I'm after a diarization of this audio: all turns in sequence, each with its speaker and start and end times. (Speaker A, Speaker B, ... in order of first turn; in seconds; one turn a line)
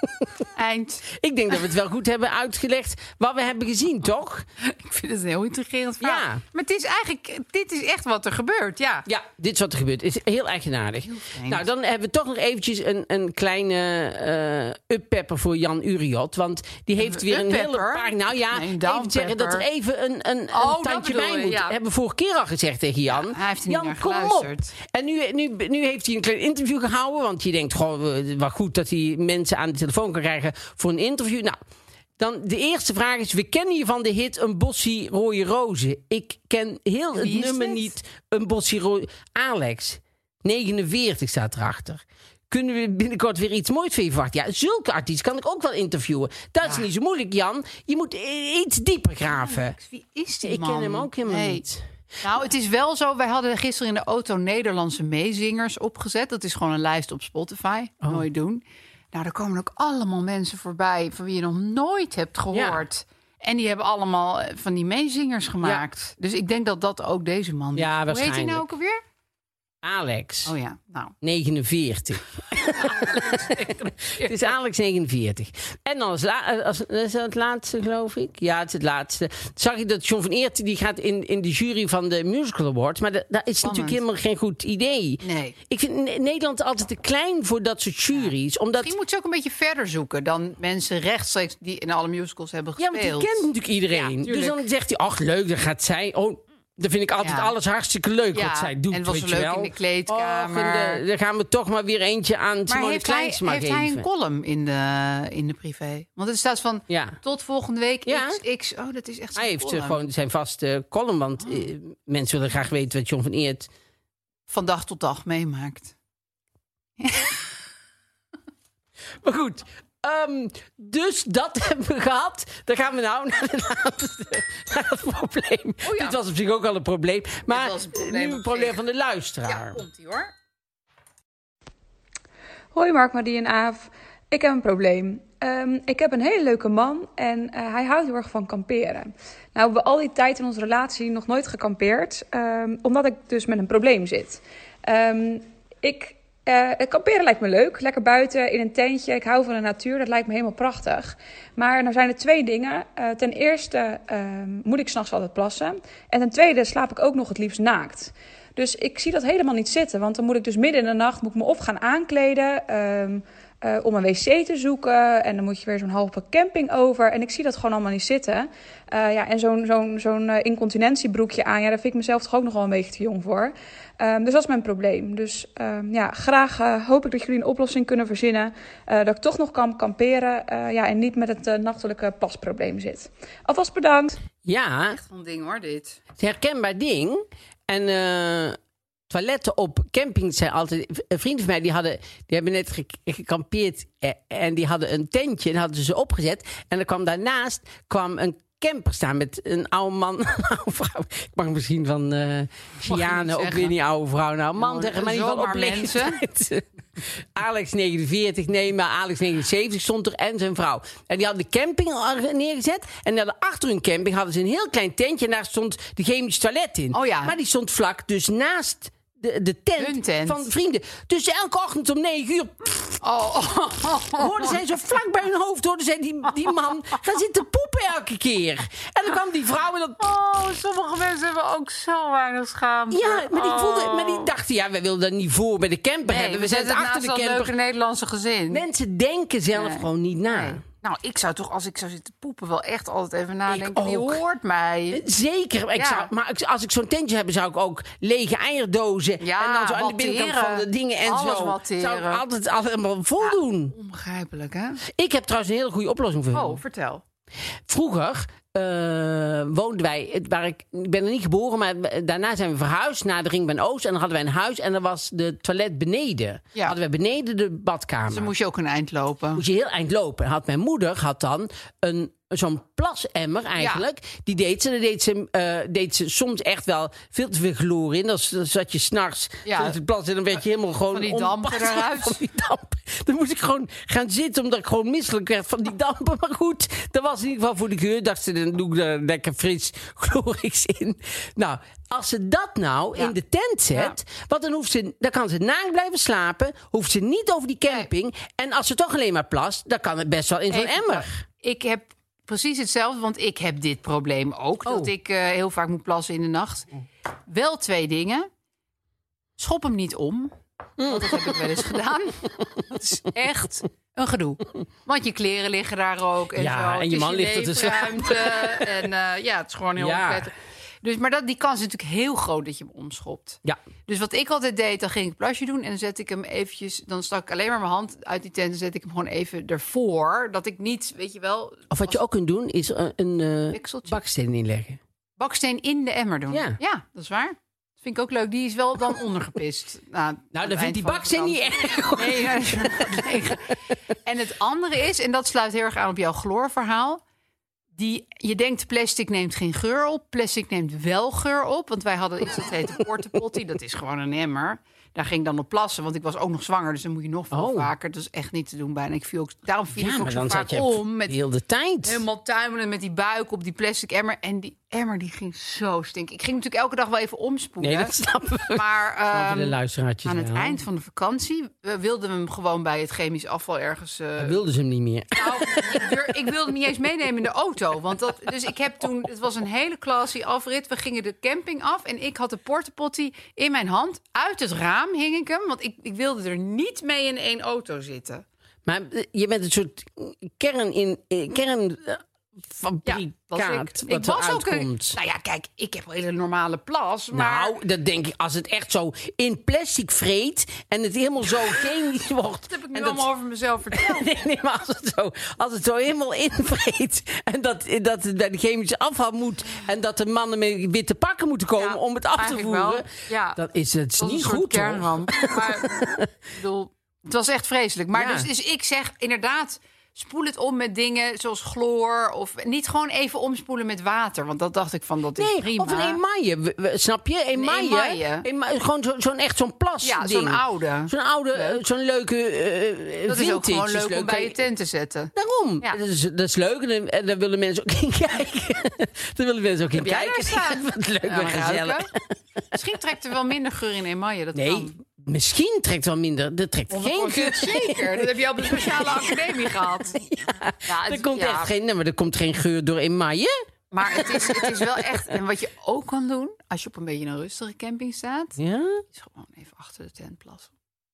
Speaker A: 0.5-1.0
Speaker B: 1.1-4.5
Speaker A: 4.6-9.1
Speaker B: 6.0-6.4
Speaker B: 9.1-31.6
Speaker A: 11.0-11.6
Speaker A: 17.0-19.6
Speaker A: 20.5-21.8
Speaker A: 23.1-24.7
Speaker B: 32.2-49.8
Speaker A: 37.1-37.9
Speaker A: 46.6-46.9
Speaker A: 49.3-51.6
Speaker B: 50.4-51.8
Speaker A: 52.2-69.0
Speaker B: 62.5-62.8
Speaker B: 67.7-68.7
Speaker B: 69.8-70.5
Speaker A: 70.5-71.1
Speaker B: 71.2-88.9
Speaker A: 72.6-74.5
Speaker A: 83.6-84.0
Speaker A: 85.2-85.5
Speaker A: 88.1-94.6
Speaker B: 92.8-104.0
Speaker A: 97.2-97.5
Speaker A: 98.3-101.0
Speaker A: 102.7-110.0
Speaker B: 106.9-107.2
Speaker B: 108.0-108.4
Speaker B: 109.3-113.7
Speaker A: 114.5-115.9
Speaker A: 117.0-117.5
Speaker B: 119.2-129.8
Speaker A: 125.8-126.2
Speaker A: 127.5-128.8
Speaker A: 129.4-130.3
Speaker C: 132.7-184.2
Speaker B: 184.4-185.0
Speaker A: 184.9-186.0
Speaker B: 186.2-188.6
Speaker B: 189.1-223.0
Speaker A: 202.8-203.8
Speaker A: 204.6-206.2
Speaker A: 216.9-217.3
Speaker A: 219.8-220.5
Speaker A: 223.0-224.6
Speaker B: 224.2-230.0
Speaker A: 230.0-234.3
Speaker B: 232.9-237.5
Speaker A: 236.1-238.6
Speaker B: 238.5-240.6
Speaker A: 239.5-245.0
Speaker B: 243.5-244.2
Speaker B: 244.9-253.7
Speaker A: 245.8-246.1
Speaker A: 249.2-252.2
Speaker A: 253.2-254.8
Speaker B: 254.9-256.6
Speaker A: 256.3-257.0
Speaker B: 257.7-268.3
Speaker A: 268.1-269.4
Speaker B: 269.4-301.2
Speaker A: 273.6-273.8
Speaker A: 279.4-279.8
Speaker A: 280.9-282.2
Speaker A: 300.5-306.7
Speaker B: 304.6-304.9
Speaker A: 307.3-308.3
Speaker A: 309.4-332.0
Speaker B: 310.8-311.6
Speaker B: 316.3-318.7
Speaker B: 319.8-320.3
Speaker B: 331.7-334.8
Speaker A: 333.5-334.0
Speaker A: 335.2-347.0
Speaker B: 336.3-336.6
Speaker B: 340.3-343.0
Speaker A: 347.8-361.2
Speaker B: 357.3-357.7
Speaker B: 359.7-362.0
Speaker A: 361.8-367.9
Speaker B: 367.6-370.6
Speaker A: 368.5-374.4
Speaker B: 374.2-376.1
Speaker A: 375.1-388.2
Speaker B: 388.6-395.0
Speaker A: 392.9-397.6
Speaker B: 397.1-403.1
Speaker A: 402.5-404.1
Speaker B: 403.7-416.1
Speaker A: 411.6-413.4
Speaker A: 414.0-426.0
Speaker B: 417.9-418.3
Speaker B: 425.2-434.4
Speaker A: 427.3-428.2
Speaker A: 429.8-431.6
Speaker A: 433.1-435.8
Speaker B: 435.1-441.9
Speaker A: 439.8-441.9
Speaker A: 442.5-444.7
Speaker B: 444.3-449.3
Speaker A: 446.7-451.5
Speaker B: 450.3-453.3
Speaker A: 453.7-458.4
Speaker B: 454.0-455.0
Speaker B: 458.4-458.8
Speaker A: 458.9-460.5